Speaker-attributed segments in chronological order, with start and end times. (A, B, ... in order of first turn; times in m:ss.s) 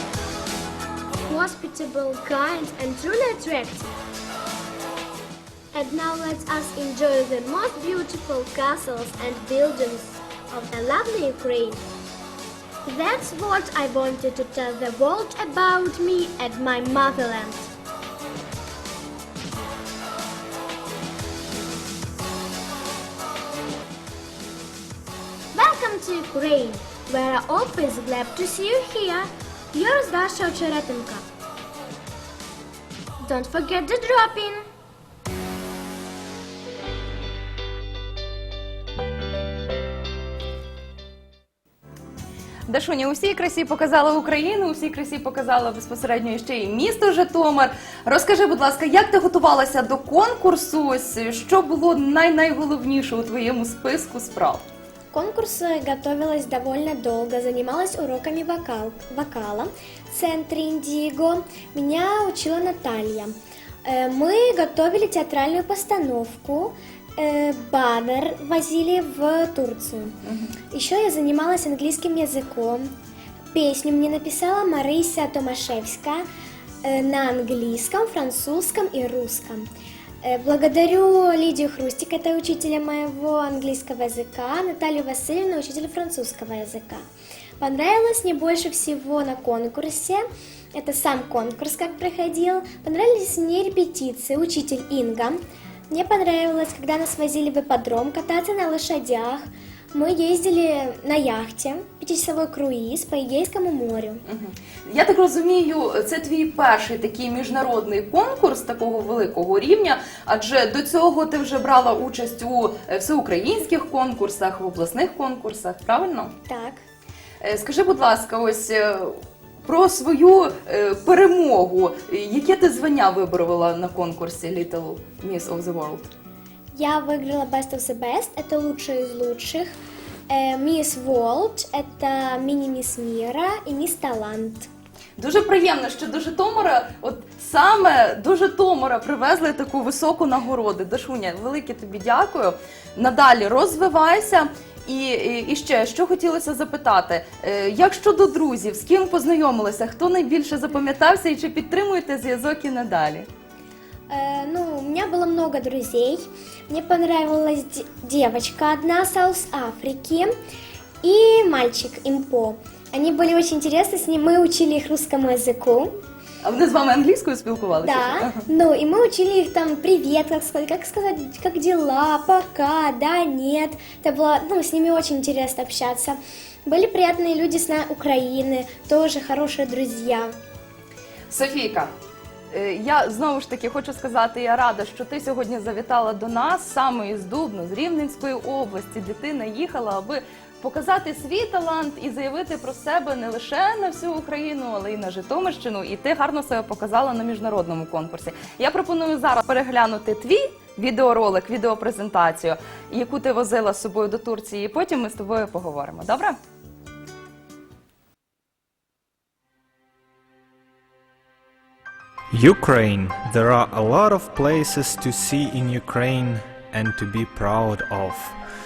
0:01.3-0:03.9 A
0:05.7-0:11.8 A
0:12.9-0:17.7 A
0:25.5-0:31.2 A
0:33.2-0:34.6 A
0:42.7-0:54.6 B
0:55.1-1:10.2 A
1:10.7-1:12.9 A
1:13.5-1:16.2 A
1:16.8-1:19.7 A
1:20.2-1:27.0 A
1:27.6-1:30.2 A
1:30.7-1:35.4 A
1:35.9-1:44.2 A
1:44.3-1:56.3 B
1:56.5-1:56.8 A
1:57.4-2:06.1 B
2:06.8-2:09.7 A
2:10.3-2:14.7 A
2:15.2-2:33.3 B
2:34.1-2:40.3 A
2:41.0-2:45.9 A
2:46.4-2:48.4 B
2:47.8-3:00.3 A
3:01.3-3:01.9 B
3:02.5-3:26.4 B
3:32.3-3:38.3 C